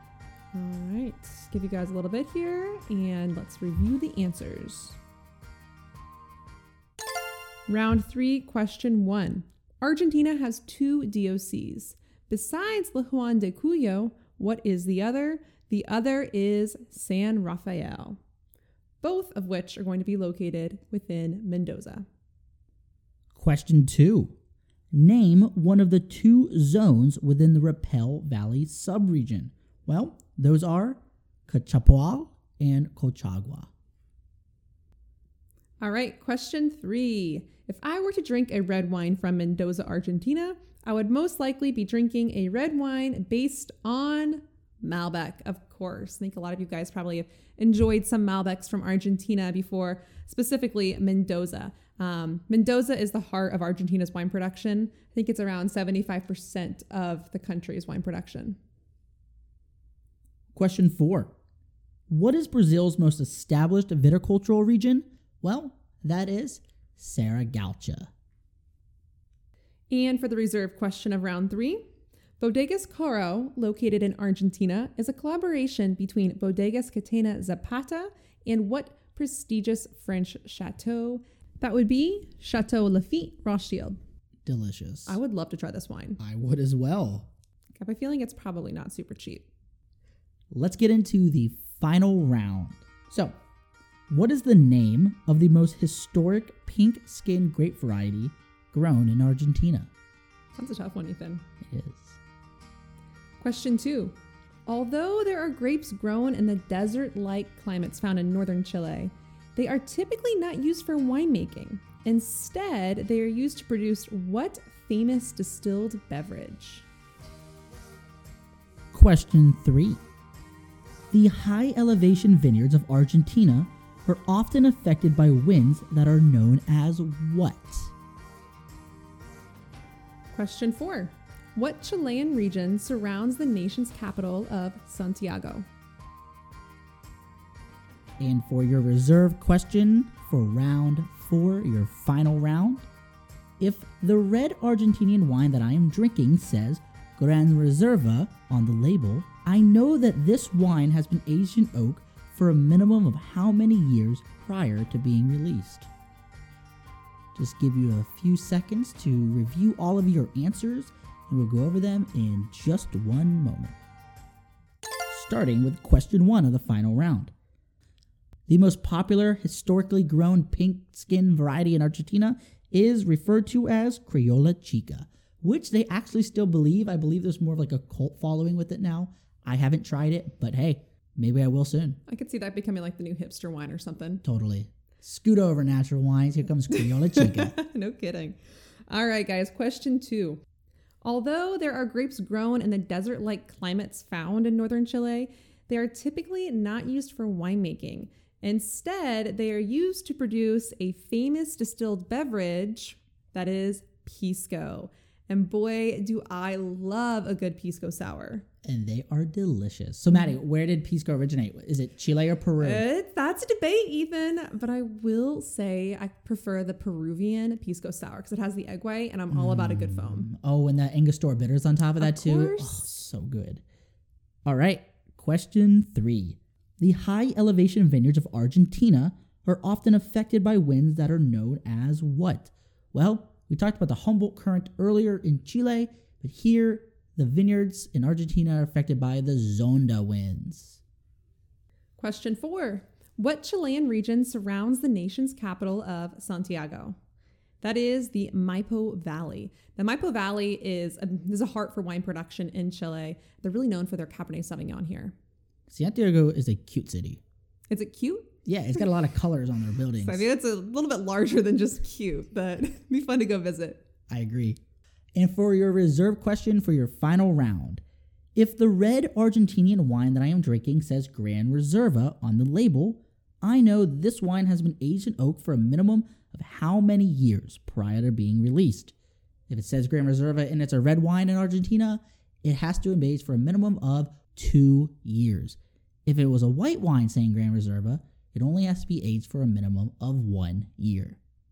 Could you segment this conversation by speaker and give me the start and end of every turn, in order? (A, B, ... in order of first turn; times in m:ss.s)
0:00.5-0:05.0 A
0:07.7-0:18.2 A
0:19.0-0:22.0 A
0:23.3-0:24.4 B
0:24.9-0:33.7 B
0:35.8-0:58.6 A
1:00.5-1:01.3 B
1:02.1-1:08.1 B
1:09.9-1:11.8 A
1:12.4-1:24.0 A
1:24.4-1:25.2 B
1:25.1-1:26.2 A
1:26.2-1:27.3 B
1:27.8-1:29.5 A
1:30.5-1:33.3 B
1:34.1-1:39.9 B
1:40.6-1:41.4 A
1:41.6-1:42.2 B
1:43.4-1:44.1 A
1:44.6-1:56.8 A
1:58.9-2:00.0 B
2:01.1-2:07.9 B
2:10.3-2:15.6 A
2:18.2-2:22.9 B
2:23.6-2:35.9 B
2:37.3-2:43.8 B
2:45.1-2:47.3 B
2:48.5-3:02.0 B
3:02.1-3:04.2 A
3:04.2-3:07.6 B
3:06.8-3:10.4 A
3:11.0-3:28.4 A
3:28.6-3:32.8 B
3:32.6-3:40.3 A
3:39.3-3:43.6 B
3:42.0-3:42.9 A
3:44.4-4:00.8 B
4:02.0-4:07.0 A
4:07.6-4:15.1 A
4:15.7-4:17.2 B
4:17.7-4:18.3 A
4:18.4-4:20.2 B
4:20.0-4:23.8 A
4:24.1-4:24.6 B
4:25.1-4:27.8 B
4:28.4-4:38.9 B
4:39.5-4:51.2 B